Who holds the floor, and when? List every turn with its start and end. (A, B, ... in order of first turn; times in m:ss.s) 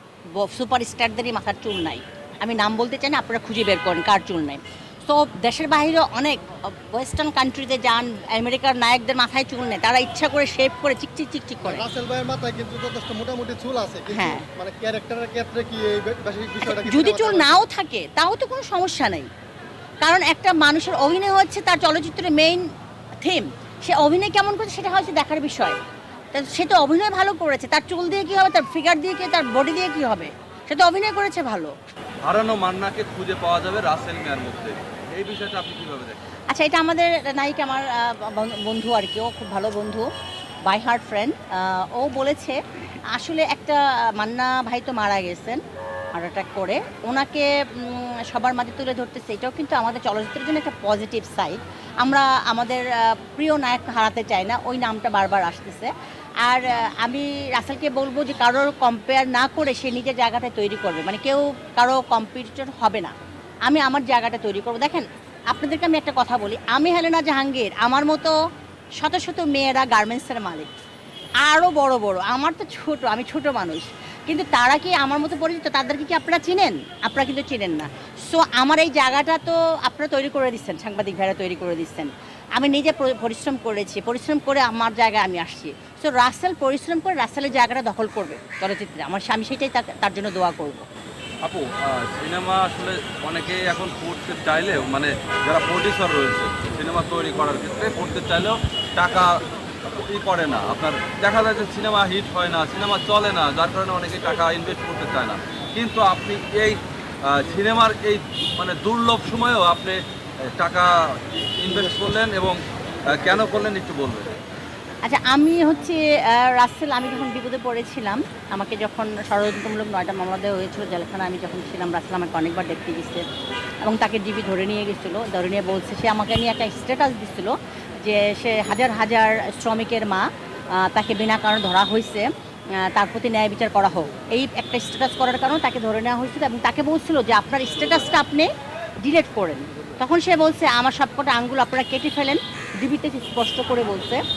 0:00.4-0:11.8 A
0:11.6-0:17.6 B
0:14.1-0:14.5 A
0:16.7-0:19.3 A
0:20.0-0:22.7 A
0:23.2-0:25.8 A
0:26.3-0:31.7 A
0:32.2-0:36.2 C
0:36.5-0:40.1 A
0:40.7-0:45.6 A
0:46.1-0:55.9 A
0:56.4-1:03.1 A
1:03.6-1:08.4 A
1:09.0-1:10.7 A
1:11.4-1:30.9 A
1:31.4-1:39.3 C
1:39.9-1:50.0 C
1:50.5-1:54.3 C
1:55.0-2:03.2 A
2:03.8-2:18.5 A
2:19.0-2:24.2 A